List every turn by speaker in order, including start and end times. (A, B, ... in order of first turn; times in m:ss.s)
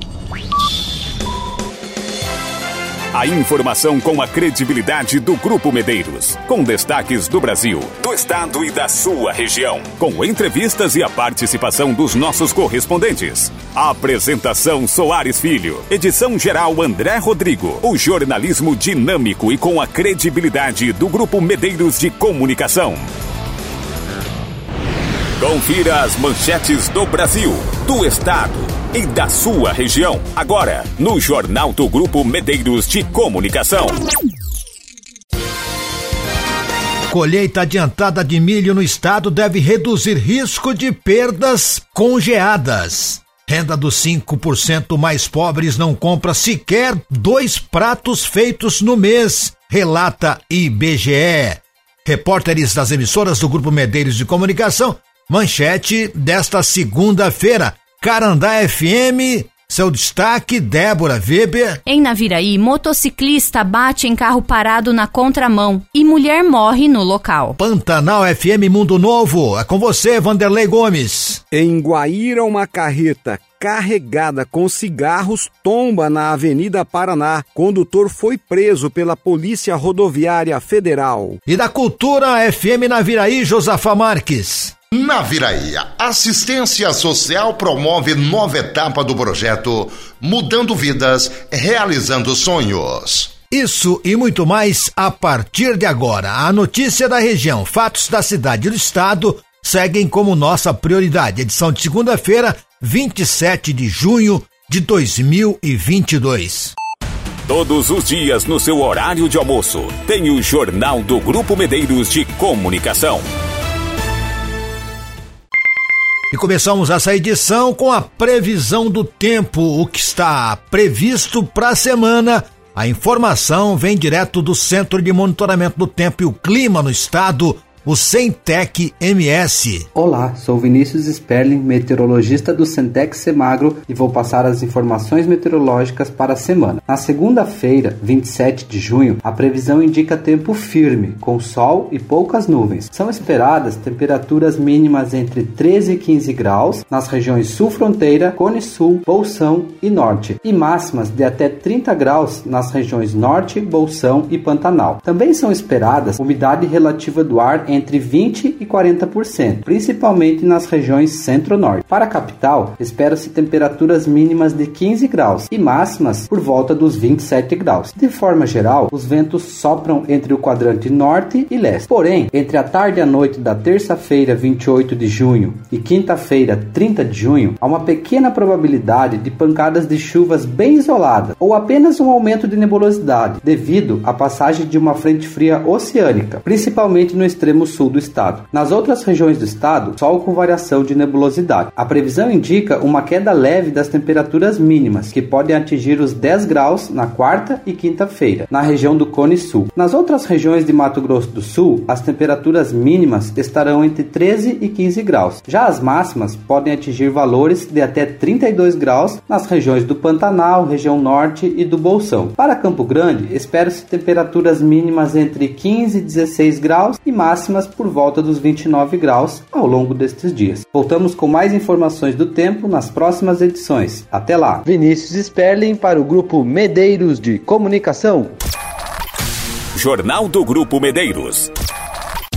0:03.1-0:23.1 A
0:25.4-0:34.0 A
0:37.1-1:01.8 B
1:01.8-1:07.6 C
1:07.6-1:11.4 B
1:11.5-1:21.4 D
1:21.5-1:24.7 B
1:25.0-1:33.3 E
1:33.5-1:46.8 B
1:47.5-1:53.2 A
1:56.3-2:09.9 B
2:10.0-3:44.7 F
3:44.9-3:48.1 G
3:49.7-3:51.5 A